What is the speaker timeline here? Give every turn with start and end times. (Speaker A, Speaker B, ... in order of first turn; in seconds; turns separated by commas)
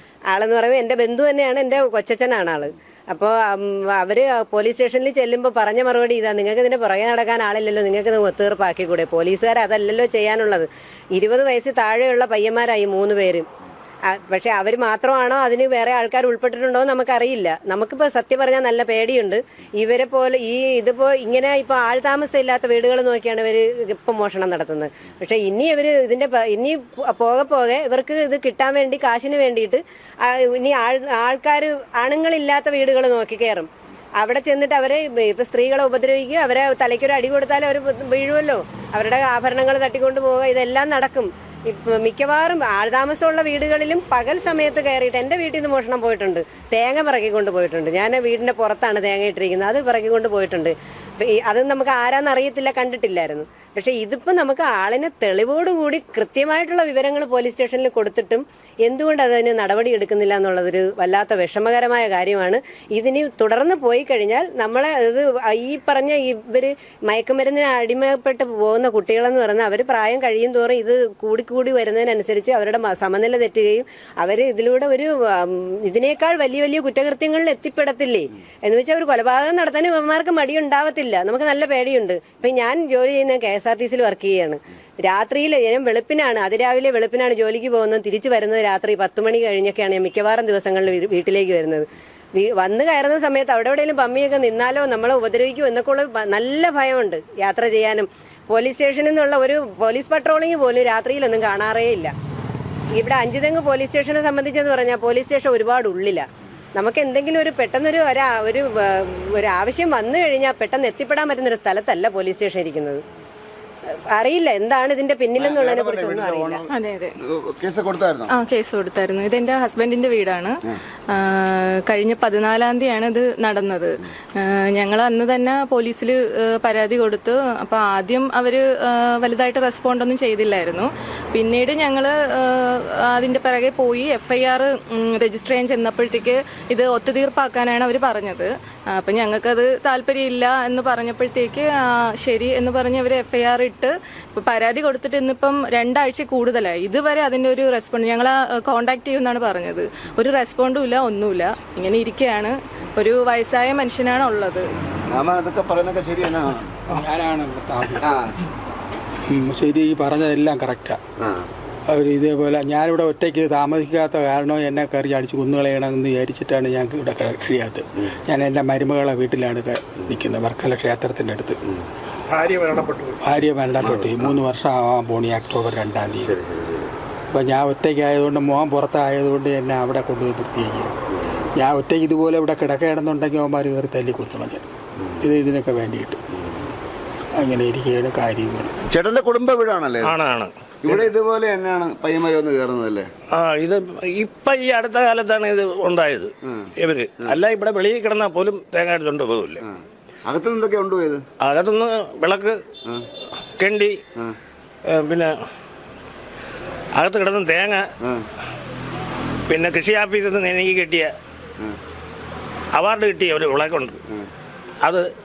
Speaker A: 0.3-13.5, Speaker A: 14.1-33.7, Speaker A: 34.2-91.9, Speaker A: 92.4-102.1, Speaker A: 103.0-113.0, Speaker A: 114.1-116.6, Speaker B: 115.4-116.7, Speaker C: 116.8-117.1, Speaker B: 117.2-118.3, Speaker C: 118.4-120.5, Speaker C: 121.2-123.8, Speaker C: 124.8-126.1, Speaker C: 126.6-128.6, Speaker C: 129.2-132.1, Speaker C: 133.2-134.6, Speaker C: 135.2-138.4, Speaker C: 139.1-141.6, Speaker C: 142.2-154.7, Speaker B: 155.1-156.8, Speaker D: 156.9-158.1, Speaker B: 158.0-158.3, Speaker D: 159.3-161.0, Speaker B: 161.2-161.5, Speaker D: 161.9-171.6, Speaker D: 172.4-176.4, Speaker B: 176.2-176.9, Speaker D: 177.3-180.9, Speaker D: 181.5-184.7, Speaker D: 185.2-186.2, Speaker D: 187.3-188.7, Speaker B: 188.9-190.1, Speaker E: 190.0-191.0, Speaker B: 190.8-193.1, Speaker E: 193.3-199.6, Speaker B: 199.6-201.2, Speaker E: 201.4-202.6, Speaker E: 203.6-204.0, Speaker E: 204.9-205.3, Speaker E: 206.9-207.9, Speaker E: 209.5-211.1, Speaker E: 212.7-214.0, Speaker E: 214.8-215.1